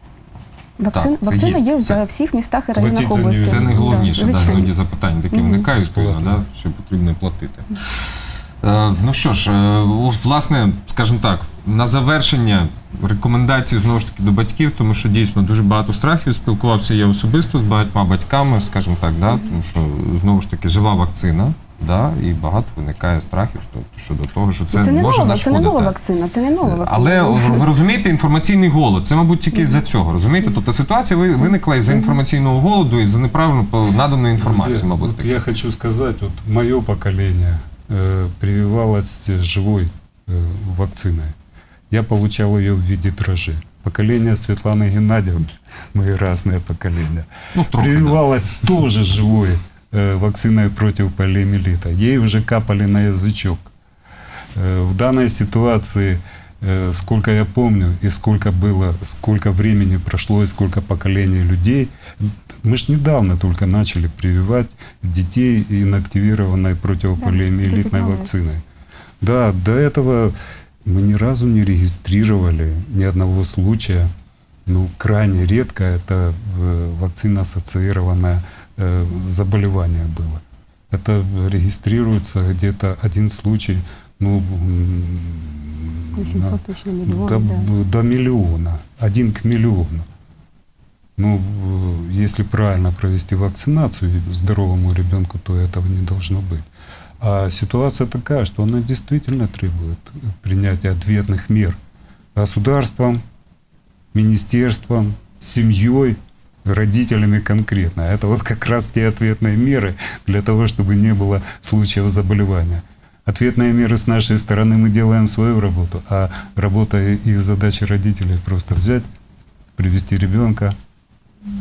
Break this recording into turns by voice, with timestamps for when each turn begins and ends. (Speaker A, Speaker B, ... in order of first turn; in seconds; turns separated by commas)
Speaker A: 0.8-4.7, Speaker B: 0.9-2.0, Speaker C: 2.7-4.6, Speaker B: 3.3-25.9, Speaker A: 5.3-5.6, Speaker C: 5.7-6.4, Speaker A: 24.7-27.7, Speaker B: 26.6-35.4, Speaker C: 34.4-41.3, Speaker C: 41.9-53.7, Speaker B: 47.5-48.2, Speaker C: 54.5-68.6, Speaker A: 67.2-68.3, Speaker C: 69.2-74.1, Speaker C: 74.7-90.1, Speaker A: 86.1-87.7, Speaker C: 91.2-96.7, Speaker C: 97.2-101.8, Speaker C: 102.3-103.2, Speaker C: 104.1-119.1, Speaker C: 119.8-120.7